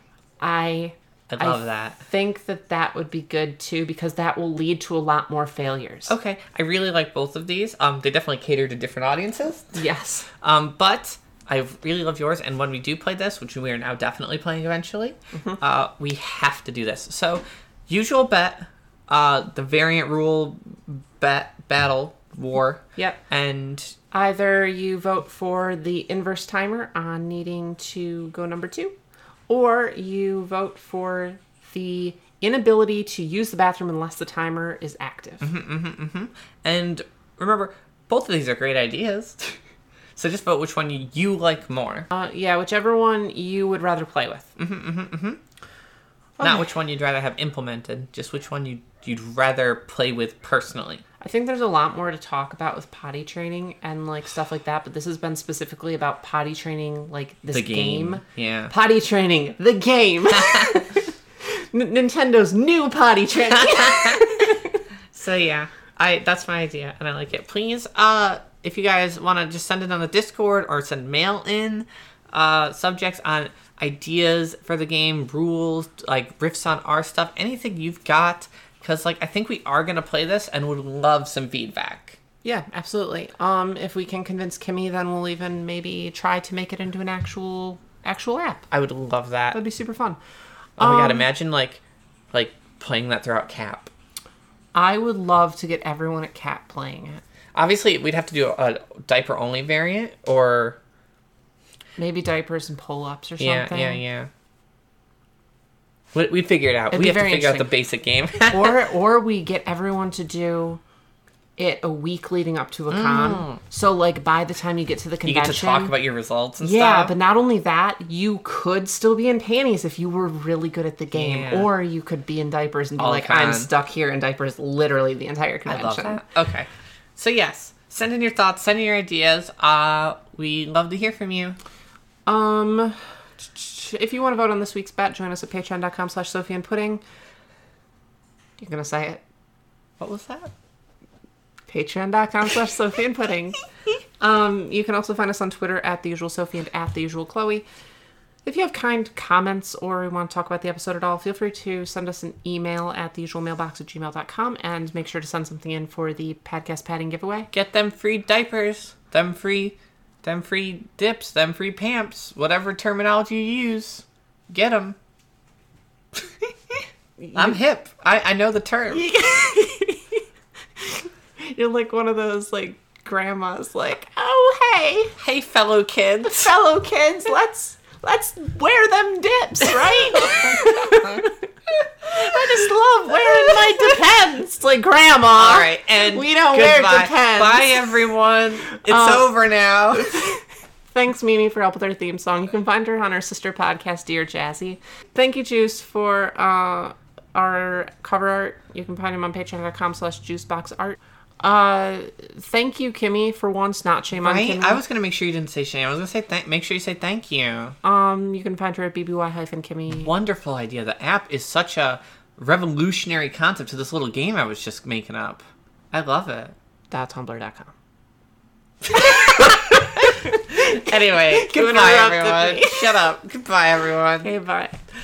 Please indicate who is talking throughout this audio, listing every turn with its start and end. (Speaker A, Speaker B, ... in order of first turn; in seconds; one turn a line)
Speaker A: 0.4-6.1
Speaker B: 1.3-2.0
Speaker B: 6.1-9.8
Speaker A: 9.8-10.3
Speaker B: 10.4-23.9
Speaker A: 15.3-15.6
Speaker A: 24.1-28.9
Speaker A: 29.5-35.5
Speaker B: 35.4-39.6
Speaker B: 40.2-42.1
Speaker A: 42.1-44.5
Speaker B: 44.6-45.4
Speaker A: 46.4-46.7
Speaker B: 46.4-51.0
Speaker A: 51.2-64.8
Speaker B: 57.5-58.7
Speaker B: 60.3-60.8
Speaker B: 63.6-64.3
Speaker B: 65.1-82.2
Speaker A: 82.4-88.6
Speaker B: 88.7-89.6
Speaker A: 89.5-90.2
Speaker A: 90.8-91.3
Speaker B: 90.8-91.8
Speaker B: 92.3-93.9
Speaker A: 94.8-97.2
Speaker B: 97.5-100.8
Speaker A: 102.0-104.0
Speaker B: 103.4-104.3
Speaker B: 106.1-108.8
Speaker A: 106.9-107.7
Speaker A: 108.5-110.8
Speaker A: 111.6-115.9
Speaker B: 112.9-113.6
Speaker B: 115.2-117.1
Speaker A: 116.6-126.2
Speaker B: 121.1-121.7
Speaker B: 123.0-123.7
Speaker B: 125.7-131.6
Speaker A: 132.3-137.0
Speaker A: 138.6-139.2
Speaker B: 140.0-140.5
Speaker A: 141.7-143.6
Speaker A: 144.2-147.7
Speaker A: 148.4-157.5
Speaker B: 157.5-165.0
Speaker A: 167.2-167.6
Speaker B: 167.3-169.1
Speaker A: 168.9-170.2
Speaker A: 170.8-175.1
Speaker B: 175.2-176.5
Speaker A: 176.3-187.9
Speaker B: 180.2-181.2
Speaker B: 183.1-183.8
Speaker B: 185.4-190.2
Speaker A: 188.8-189.3
Speaker A: 190.0-190.4
Speaker A: 190.9-204.8
Speaker B: 204.2-207.8
Speaker A: 207.8-210.1
Speaker B: 210.0-216.5
Speaker A: 216.9-217.7
Speaker B: 218.9-224.3
Speaker A: 219.0-223.0
Speaker A: 224.2-224.8